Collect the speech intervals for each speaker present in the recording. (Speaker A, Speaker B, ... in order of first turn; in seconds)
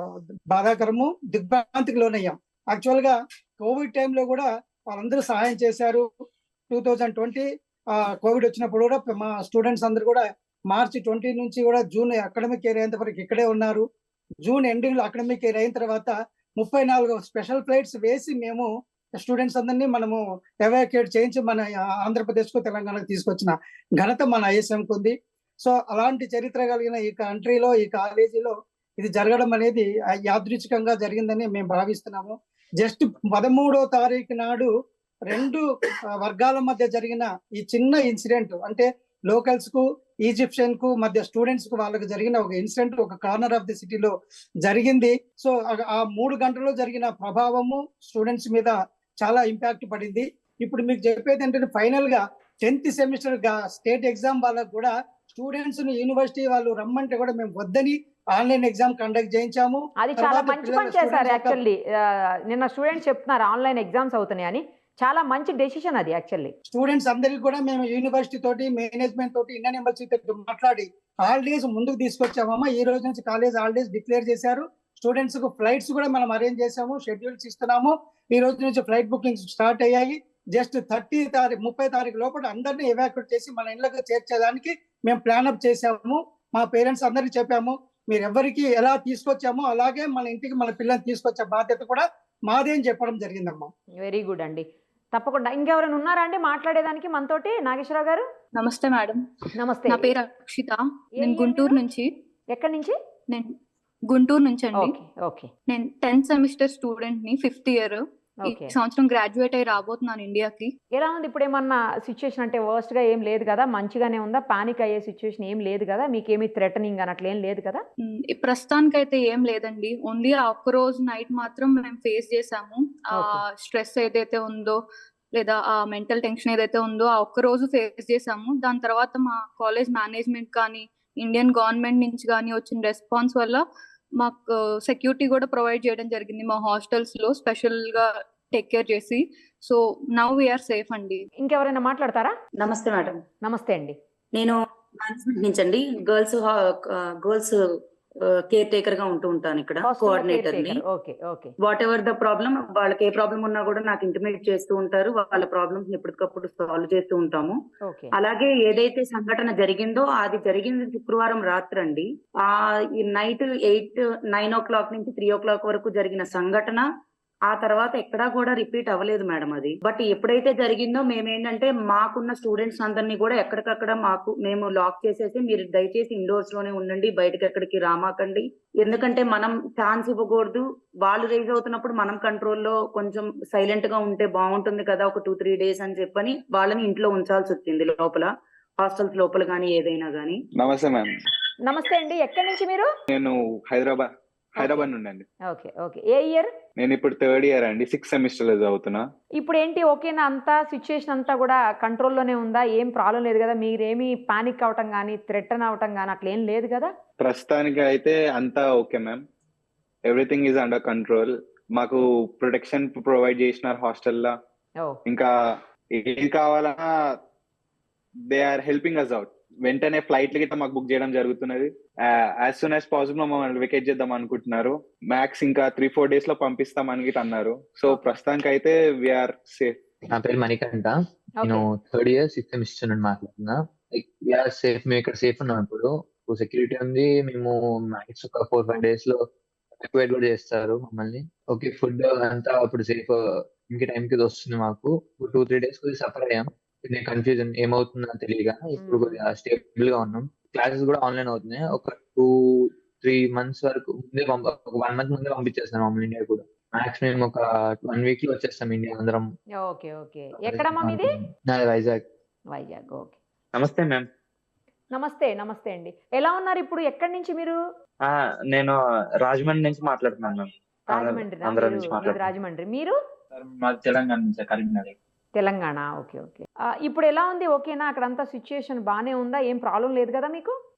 Speaker A: 0.5-6.0, 6.7-13.8, 14.4-34.7, 35.3-35.6, 36.2-44.1, 44.6-61.6, 66.7-93.7
Speaker B: 60.0-66.5, 94.0-98.2, 99.5-100.1, 101.2-101.8, 102.5-102.9, 104.8-105.5, 108.4-108.7, 110.9-117.8, 123.1-123.4, 141.4-142.3, 143.4-143.9, 149.8-151.5, 157.8-158.1, 191.7-192.9, 194.6-194.9, 195.5-196.5, 199.4-206.9, 248.8-249.2, 259.6-261.1, 262.5-263.1, 264.9-267.6, 270.9-272.9, 275.4-280.5
Speaker C: 98.5-99.2, 99.9-102.1, 104.1-105.0, 105.7-110.7, 118.0-124.8, 125.3-133.6, 134.2-141.2
Speaker D: 142.6-143.2, 145.0-146.4, 147.2-147.5, 148.5-150.8, 151.7-157.5, 158.2-162.0, 163.0-166.8, 167.5-188.3, 188.8-190.3
Speaker E: 190.6-191.1, 193.1-195.2, 196.8-199.1, 207.2-209.2, 210.0-214.3, 215.1-215.3, 215.9-216.8, 218.3-229.8
Speaker F: 230.1-239.2, 239.8-259.3, 260.4-262.0
Speaker G: 263.5-264.1, 268.1-272.3, 273.4-274.9